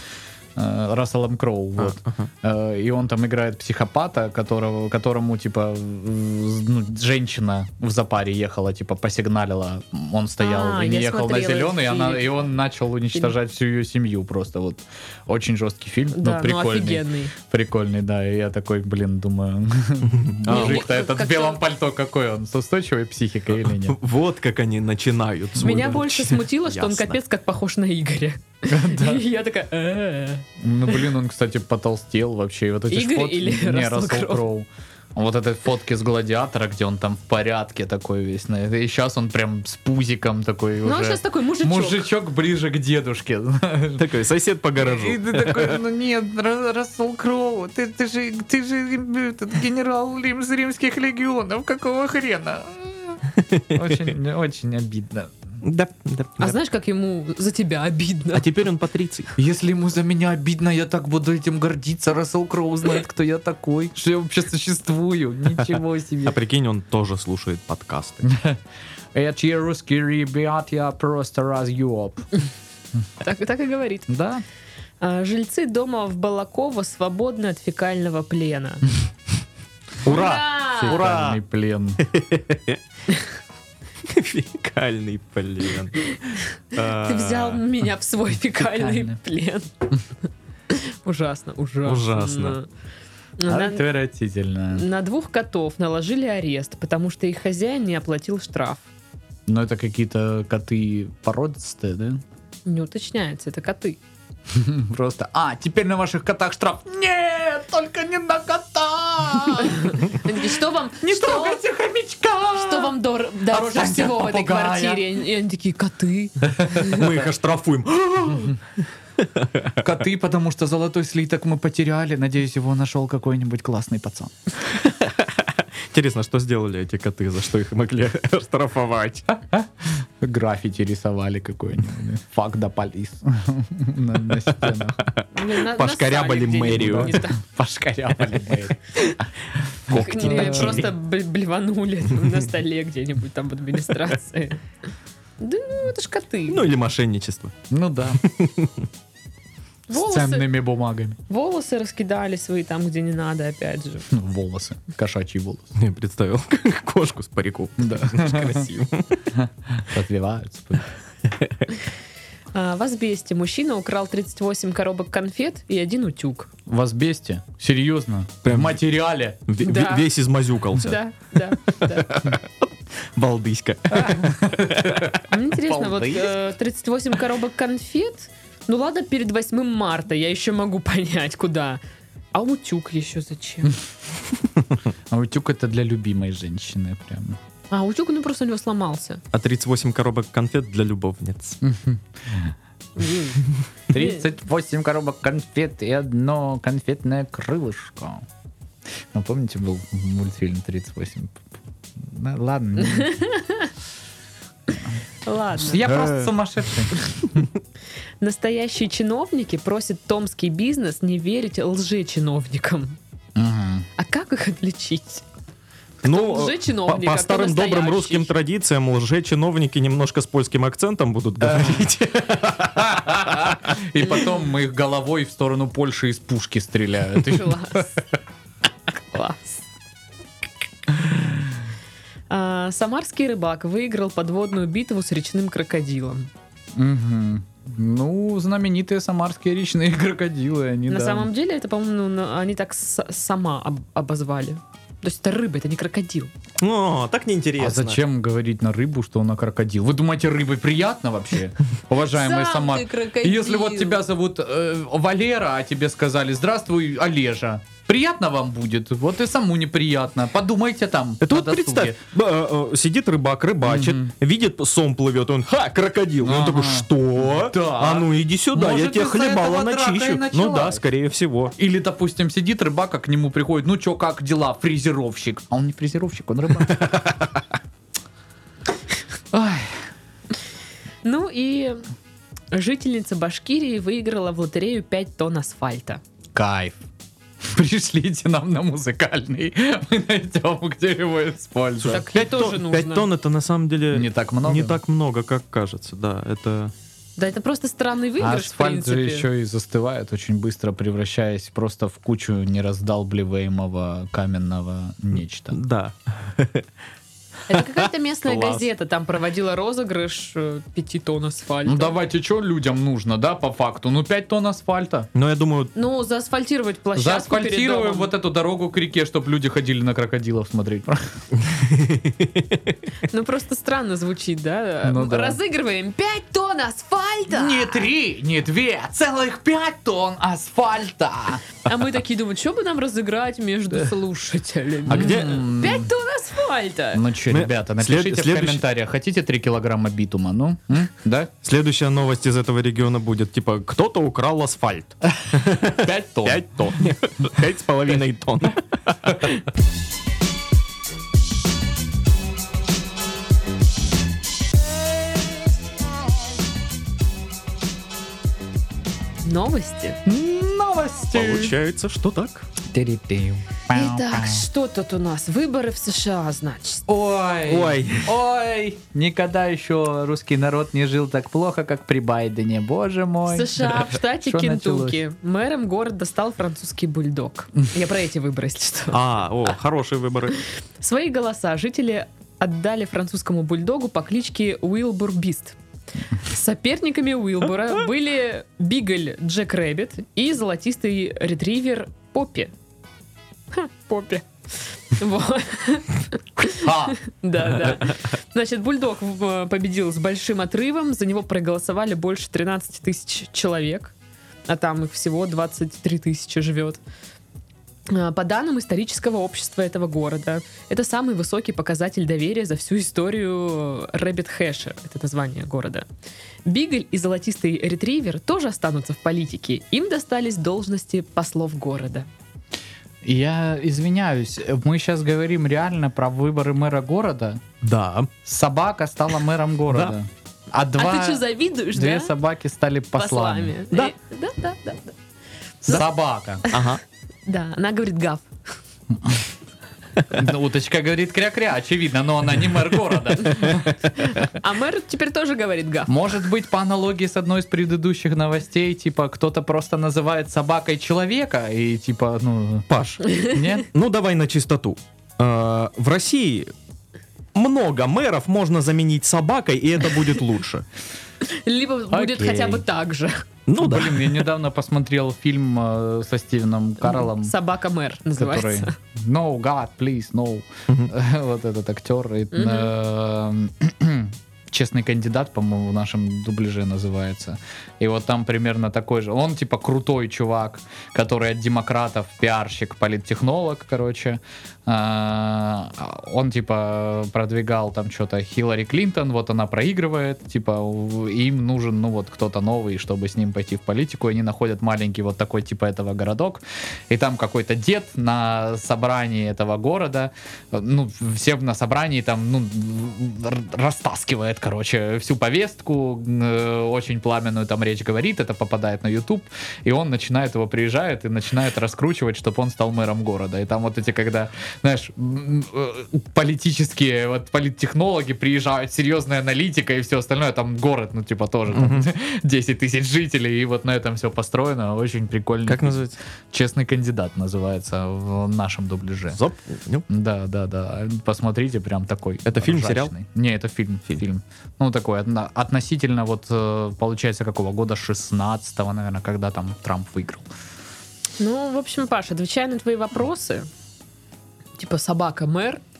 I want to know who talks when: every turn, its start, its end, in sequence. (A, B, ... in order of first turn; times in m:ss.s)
0:00.6-0:24.0 A
0:01.8-0:02.3 B
0:10.4-0:12.4 C
0:16.1-0:17.3 C
0:20.3-0:20.9 B
0:20.4-0:21.6 C
0:23.8-0:27.2 B
0:25.6-0:30.4 C
0:28.7-0:29.2 A
0:30.6-0:44.1 A
0:32.9-0:34.4 C
0:40.8-0:42.1 C
0:44.0-0:45.8 B
0:44.8-0:53.2 A
0:53.4-0:54.0 B
0:53.7-0:55.3 A
0:55.6-0:56.6 B
0:56.4-0:58.4 C
0:58.3-0:59.3 B
0:59.4-1:06.4 A
1:06.2-1:08.3 B
1:08.2-1:08.6 A
1:09.1-1:12.2 A
1:13.2-1:14.1 C
1:14.1-1:14.4 A
1:15.0-1:18.8 C
1:20.0-1:21.4 B
1:20.0-1:22.0 A
1:20.0-1:21.0 C
1:22.0-1:22.8 B
1:24.0-1:27.6 B
1:26.1-1:29.7 C
1:28.6-1:29.2 A
1:30.7-1:32.7 C
1:31.8-1:32.6 B
1:33.4-1:33.8 C
1:33.5-1:34.8 A
1:34.7-1:38.9 C
1:39.5-1:42.2 A
1:42.6-1:44.0 C
1:44.5-1:50.5 A
1:49.6-1:51.6 C
1:51.0-1:55.0 A
1:52.5-1:57.1 C
1:56.6-1:57.1 A
1:56.8-1:58.6 B
1:59.2-1:59.8 B
1:59.8-2:04.3 A
2:04.7-2:09.3 B
2:09.4-2:15.0 A
2:14.5-2:17.2 B
2:15.3-2:17.4 C
2:16.7-2:19.2 A
2:19.8-2:20.9 A
2:19.9-2:20.9 B
2:19.9-2:24.6 C
2:25.4-2:26.7 C
2:26.5-2:27.5 B
2:27.7-2:28.2 A
2:28.2-2:28.7 B
2:29.9-2:30.5 C
2:29.9-2:31.2 A
2:31.3-2:34.1 C
2:34.1-2:35.8 A
2:35.8-2:39.2 B
2:37.8-2:38.7 A
2:39.4-2:40.9 A
2:41.4-2:41.7 B
2:42.5-2:46.5 C
2:46.7-2:49.4 A
2:48.4-2:48.8 B
2:49.5-2:51.0 B
2:49.6-2:50.1 C
2:50.8-2:52.1 C
2:51.7-2:55.1 B
2:53.9-2:56.4 A
2:55.3-3:01.8 C
3:02.3-3:03.8 C
3:05.1-3:07.4 A
3:07.7-3:09.2 C
3:09.3-3:11.6 B
3:11.6-3:12.5 A
3:13.0-3:13.4 C
3:13.9-3:18.2 A
3:19.1-3:23.2 A
3:22.8-3:23.7 C
3:25.2-3:25.8 C
3:25.6-3:27.0 A
3:25.8-3:26.3 B
3:28.2-3:33.0 C
3:33.4-3:33.9 A
3:34.0-3:35.2 C
3:36.0-3:43.8 B
3:36.0-3:38.3 C
3:42.8-3:47.9 A
3:47.3-3:47.9 C
3:49.1-3:49.6 C
3:50.9-3:51.5 A
3:52.3-3:56.3 C
3:56.8-4:01.3 A
4:00.9-4:06.3 C
4:06.6-4:08.0 B
4:07.6-4:22.0 A
4:12.1-4:14.0 C
4:21.2-4:31.5 B
4:23.6-4:24.1 A
4:26.2-4:30.8 A
4:31.6-4:37.1 A
4:39.3-4:39.8 A
4:41.0-4:41.8 C
4:42.5-4:46.0 C
4:46.3-4:46.8 A
4:47.4-4:52.0 A
4:51.8-4:56.7 B
4:51.9-4:53.1 C
4:53.9-4:54.8 A
4:57.2-4:59.3 C
4:58.2-5:05.6 A
5:05.5-5:06.7 B
5:07.5-5:12.0 C
5:07.6-5:08.6 B
5:11.6-5:15.1 A
5:15.1-5:15.7 B
5:15.7-5:18.1 C
5:16.9-5:21.0 A
5:21.4-5:22.5 B
5:23.1-5:27.9 C
5:24.8-5:25.4 A
5:27.3-5:31.4 A
5:31.6-5:37.0 C
5:34.9-5:35.5 B
5:34.9-5:35.9 A
5:36.9-5:41.3 A
5:37.3-5:38.6 B
5:41.4-5:49.3 B
5:45.8-5:46.4 A
5:59.2-6:00.0 C
6:00.0-6:01.5 A
6:01.1-6:02.5 B
6:02.7-6:04.4 A
6:03.7-6:06.8 C
6:06.9-6:15.0 A
6:07.4-6:08.1 B
6:13.3-6:19.0 C
6:18.9-6:20.4 B
6:20.8-6:25.6 C
6:26.2-6:32.5 C
6:33.5-6:34.3 C
6:34.9-6:43.9 C
6:36.4-6:37.0 A
6:44.5-6:46.8 C
6:47.9-6:55.8 C
6:56.4-7:02.1 C
7:03.0-7:07.4 A
7:07.6-7:08.1 B
7:08.2-7:13.6 A
7:10.8-7:12.1 C
7:13.0-7:15.0 C
7:15.6-7:16.4 A
7:16.5-7:16.8 B
7:17.2-7:18.3 C
7:20.1-7:23.7 A
7:23.3-7:23.8 B
7:23.9-7:26.0 C
7:25.9-7:33.7 A
7:32.7-7:36.5 B
7:37.3-7:40.6 B
7:41.2-7:43.2 C
7:41.9-7:42.6 A
7:43.5-7:44.3 B
7:43.6-7:47.3 A
7:46.8-7:48.8 C
7:48.2-8:49.2 A
7:52.3-7:52.7 C
8:41.5-8:41.9 B
8:45.4-8:46.0 B
8:49.1-8:49.8 B
8:49.9-9:00.3 A
8:52.2-8:52.9 B
9:01.2-9:03.5 C
9:04.6-9:05.6 C